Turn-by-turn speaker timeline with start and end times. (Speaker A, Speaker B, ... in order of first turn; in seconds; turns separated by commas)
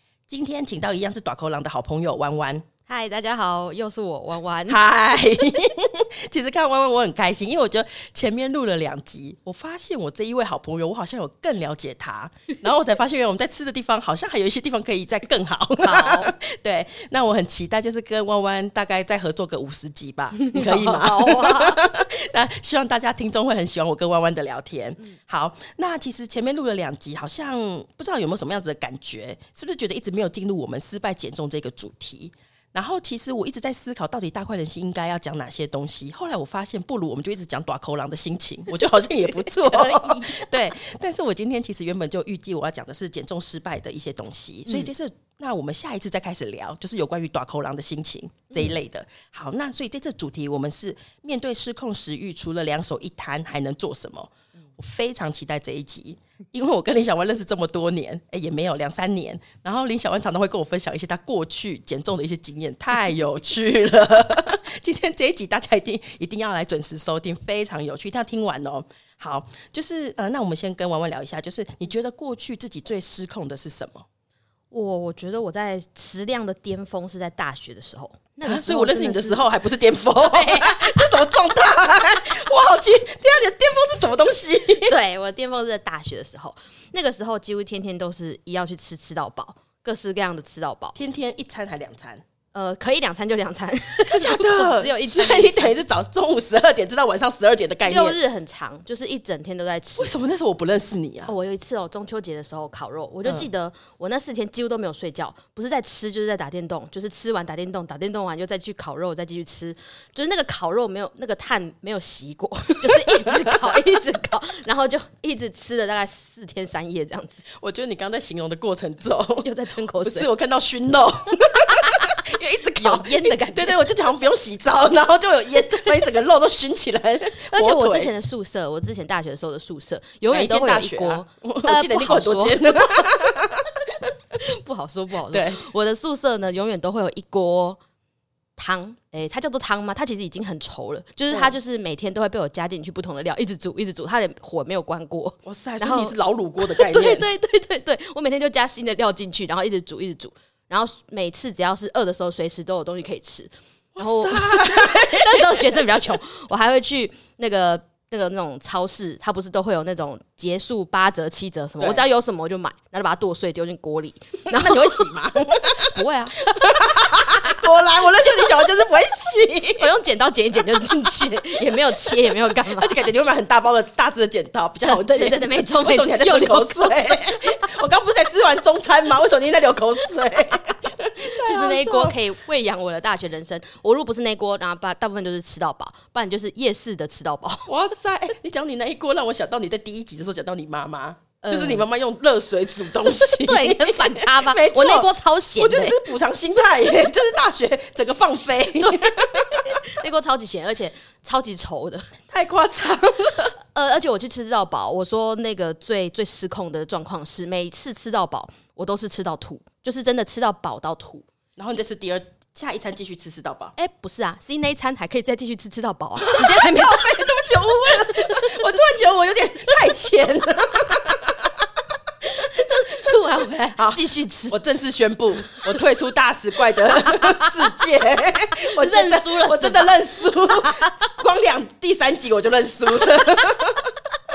Speaker A: 0.3-2.7, Speaker B: 2.9-4.8, Speaker A: 4.7-74.0, Speaker B: 15.8-16.3, Speaker B: 20.3-21.8, Speaker B: 38.9-40.6, Speaker B: 74.7-79.5, Speaker A: 78.4-85.0, Speaker B: 80.2-81.2, Speaker B: 84.8-91.0, Speaker A: 90.9-92.2, Speaker B: 92.5-95.8, Speaker A: 94.0-98.2, Speaker B: 97.8-100.2, Speaker A: 100.0-101.3, Speaker B: 101.3-117.4, Speaker A: 113.0-113.5, Speaker A: 117.6-119.5, Speaker B: 119.4-120.3, Speaker A: 120.0-128.1, Speaker B: 122.8-123.8, Speaker B: 127.5-133.2, Speaker A: 130.3-133.8, Speaker B: 134.3-137.8, Speaker A: 135.3-135.7, Speaker B: 138.6-165.1, Speaker A: 145.4-147.2, Speaker A: 153.9-155.8, Speaker A: 164.4-165.9, Speaker B: 165.7-167.4, Speaker A: 166.5-169.9, Speaker B: 169.8-173.1, Speaker A: 171.6-182.2, Speaker B: 174.8-177.4, Speaker B: 181.3-187.7, Speaker A: 187.7-199.7, Speaker B: 191.4-191.8, Speaker B: 193.0-196.0, Speaker B: 198.8-202.1, Speaker A: 202.3-203.6, Speaker B: 203.7-211.2, Speaker A: 211.6-213.8, Speaker B: 213.8-218.6, Speaker A: 216.2-221.4, Speaker B: 222.2-224.6, Speaker A: 223.8-233.9, Speaker B: 226.9-227.7, Speaker B: 228.6-230.9